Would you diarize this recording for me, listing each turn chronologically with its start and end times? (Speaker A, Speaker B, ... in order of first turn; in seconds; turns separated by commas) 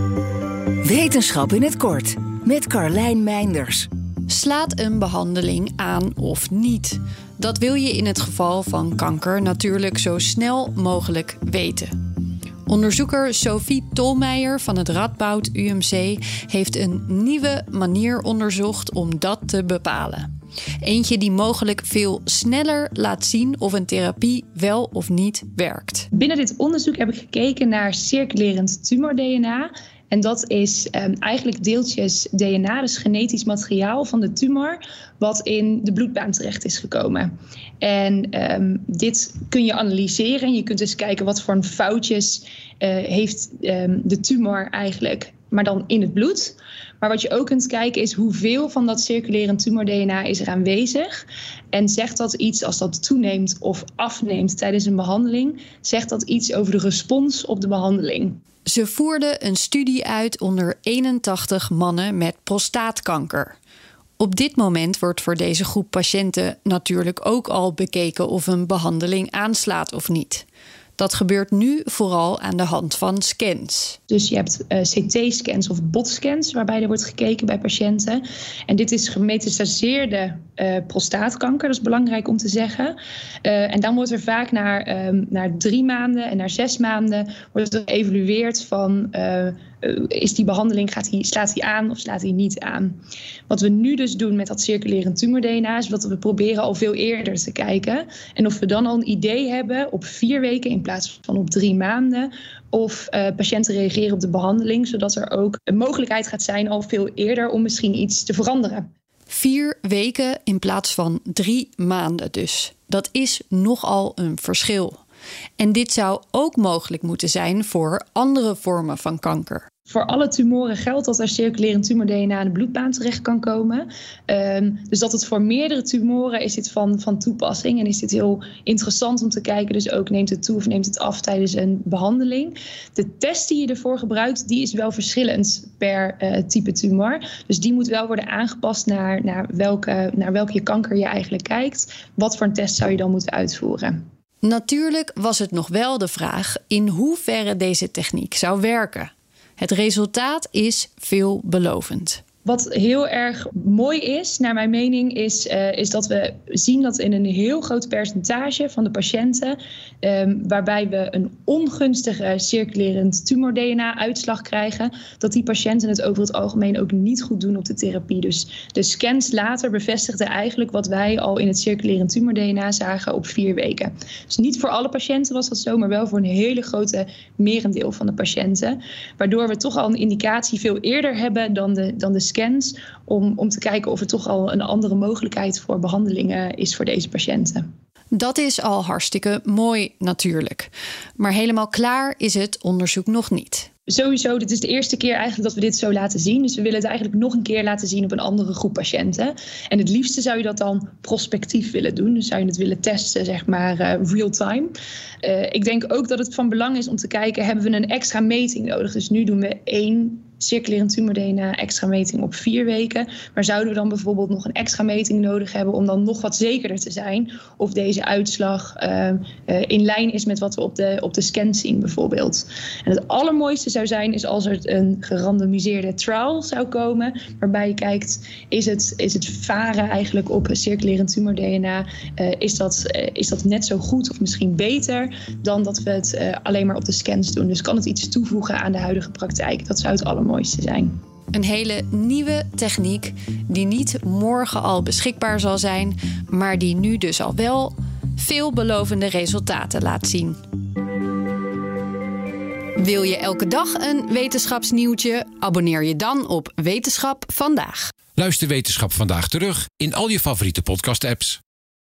Speaker A: 0.8-3.9, Speaker B: 4.3-11.9, Speaker B: 12.7-20.3, Speaker B: 20.8-26.1, Speaker C: 26.1-37.3, Speaker C: 37.8-51.2, Speaker C: 51.7-58.4, Speaker B: 58.7-63.6, Speaker B: 64.2-70.5, Speaker B: 71.0-74.0, Speaker C: 74.1-93.0, Speaker C: 93.5-108.9, Speaker B: 109.3-115.0, Speaker B: 115.6-119.7, Speaker C: 119.9-144.0, Speaker B: 144.4-152.2, Speaker C: 152.4-187.7, Speaker B: 188.1-193.7, Speaker C: 193.9-204.7, Speaker C: 205.2-240.9, Speaker B: 241.3-250.4, Speaker B: 252.8-257.9, Speaker D: 258.2-261.4